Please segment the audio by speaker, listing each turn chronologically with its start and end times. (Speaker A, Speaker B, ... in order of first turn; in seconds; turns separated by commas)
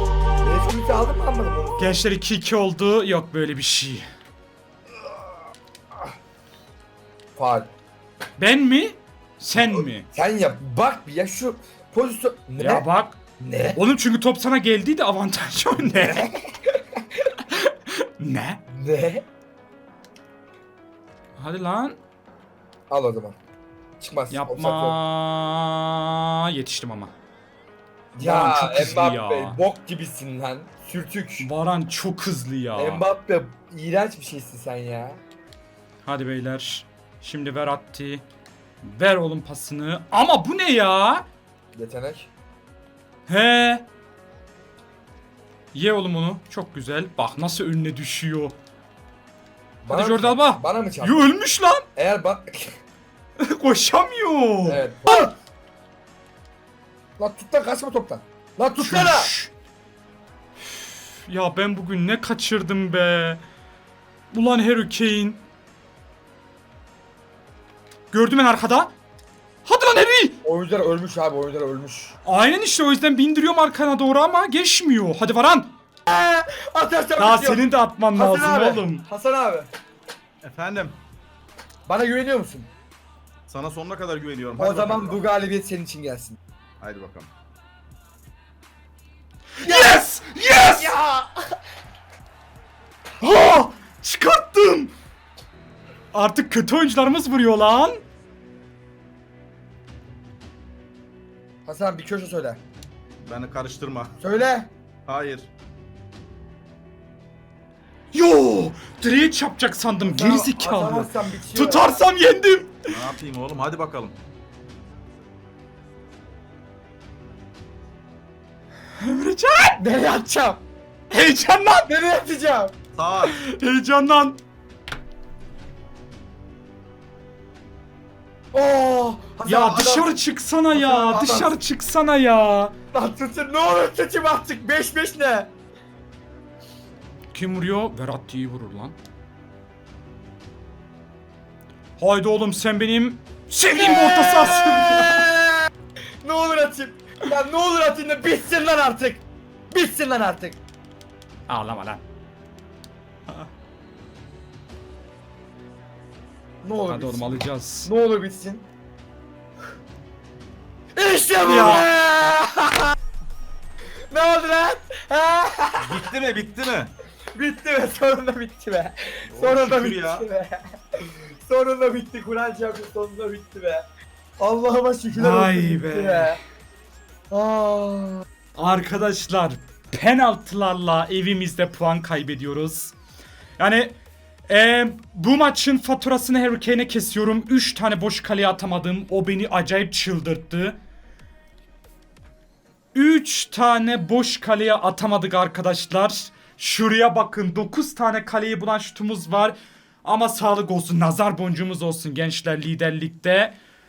Speaker A: 0.4-1.9, Speaker B: 1.8-4.1, Speaker A: 7.3-7.7, Speaker B: 8.4-10.1, Speaker A: 9.7-12.9, Speaker B: 12.6-13.2, Speaker A: 13.4-13.8, Speaker B: 13.7-16.3, Speaker A: 15.8-16.8, Speaker B: 17.4-18.6, Speaker A: 18.7-19.2, Speaker B: 21.4-22.0, Speaker A: 22.9-23.4, Speaker A: 24.0-25.0, Speaker B: 24.3-27.1, Speaker A: 28.1-31.5, Speaker B: 28.2-29.6, Speaker B: 31.4-33.0, Speaker A: 32.7-35.2, Speaker B: 36.0-38.2, Speaker B: 38.8-41.2, Speaker A: 41.7-42.3, Speaker B: 43.3-43.9, Speaker B: 45.7-48.5, Speaker A: 49.8-51.3, Speaker B: 49.9-51.8, Speaker A: 52.0-52.8, Speaker B: 53.4-55.3, Speaker A: 54.6-55.3, Speaker A: 57.2-59.3, Speaker B: 58.8-59.5, Speaker B: 60.7-63.4, Speaker B: 64.3-65.4, Speaker B: 68.1-68.9, Speaker B: 69.6-70.4, Speaker A: 70.4-72.1, Speaker B: 72.2-75.7, Speaker A: 76.1-79.7, Speaker B: 77.2-79.0, Speaker C: 80.4-81.0, Speaker A: 81.8-82.7, Speaker C: 83.5-85.2, Speaker A: 84.6-86.4, Speaker C: 86.8-87.3, Speaker B: 89.6-91.0, Speaker A: 89.6-90.0, Speaker A: 90.6-91.4, Speaker B: 93.2-94.9, Speaker B: 96.1-98.0, Speaker A: 101.6-102.6, Speaker C: 103.2-104.1, Speaker A: 104.2-104.7, Speaker C: 105.0-105.5, Speaker B: 108.1-112.9, Speaker A: 110.0-112.0, Speaker C: 112.9-114.1, Speaker B: 119.0-119.8, Speaker A: 119.8-120.6, Speaker B: 121.1-121.9, Speaker A: 121.9-122.7, Speaker C: 122.9-123.3, Speaker B: 123.2-124.4, Speaker A: 128.5-130.1, Speaker B: 129.4-132.7, Speaker A: 130.7-131.5, Speaker A: 132.9-135.5, Speaker B: 137.3-139.0, Speaker B: 142.0-145.3, Speaker A: 143.7-145.7, Speaker A: 146.2-150.6, Speaker B: 151.5-152.0, Speaker A: 156.6-158.6, Speaker B: 156.9-157.9, Speaker A: 160.9-162.9, Speaker B: 161.4-161.9, Speaker A: 164.1-166.1, Speaker C: 165.8-166.9, Speaker A: 167.3-173.8, Speaker C: 169.3-170.2, Speaker A: 174.4-176.4, Speaker B: 175.1-176.4, Speaker A: 177.3-178.2, Speaker B: 178.5-182.9, Speaker B: 183.6-184.0, Speaker B: 184.5-190.8, Speaker B: 192.9-203.5